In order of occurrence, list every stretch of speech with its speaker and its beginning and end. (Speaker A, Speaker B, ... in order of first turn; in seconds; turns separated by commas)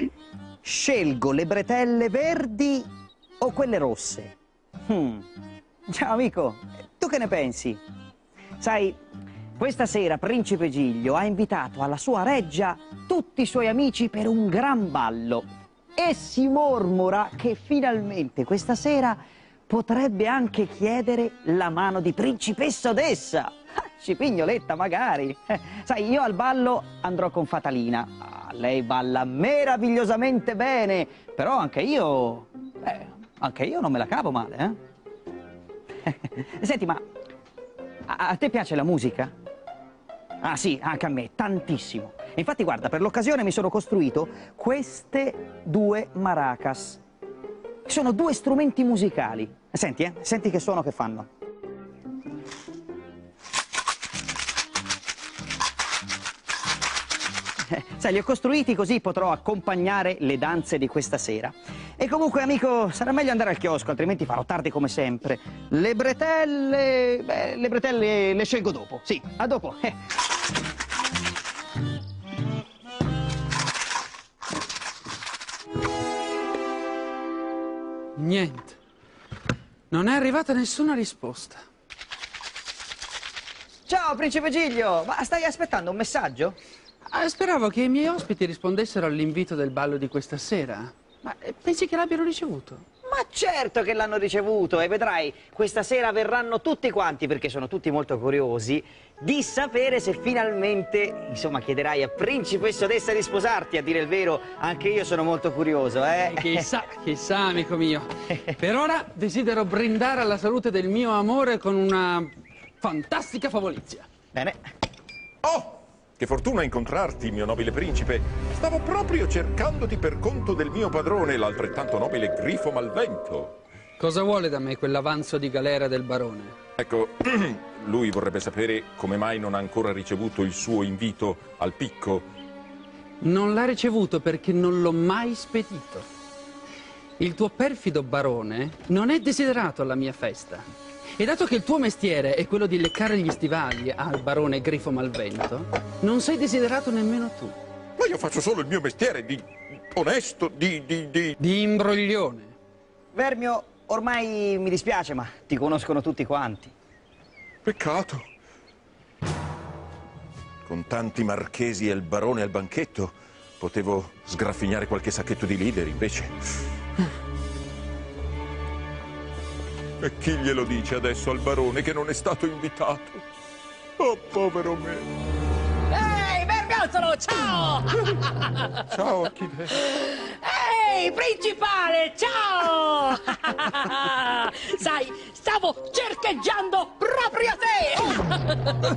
Speaker A: 0.6-2.9, Speaker A: 3.4-4.3, Speaker A: 4.9-5.3, Speaker A: 5.9-7.8, Speaker A: 8.6-9.0, Speaker A: 9.6-15.4, Speaker A: 15.9-34.8, Speaker A: 36.0-37.0, Speaker A: 38.1-39.3, Speaker A: 40.4-47.0, Speaker A: 47.9-51.3, Speaker A: 57.7-69.9, Speaker B: 78.2-78.8, Speaker B: 79.9-81.6, Speaker A: 83.9-86.5, Speaker B: 87.1-92.8, Speaker A: 93.1-106.7, Speaker B: 106.2-114.0, Speaker A: 108.3-108.5, Speaker C: 115.4-123.6, Speaker B: 124.0-126.5, Speaker C: 126.8-132.2, Speaker B: 133.2-136.1, Speaker B: 137.2-140.6, Speaker B: 141.2-147.6, Speaker C: 148.0-151.3, Speaker B: 151.4-152.5, Speaker A: 153.1-156.7, Speaker C: 157.6-158.2, Speaker C: 160.6-166.3, Speaker C: 170.0-173.2, Speaker C: 174.0-175.1, Speaker D: 175.9-178.7, Speaker C: 178.9-179.7, Speaker D: 179.7-188.8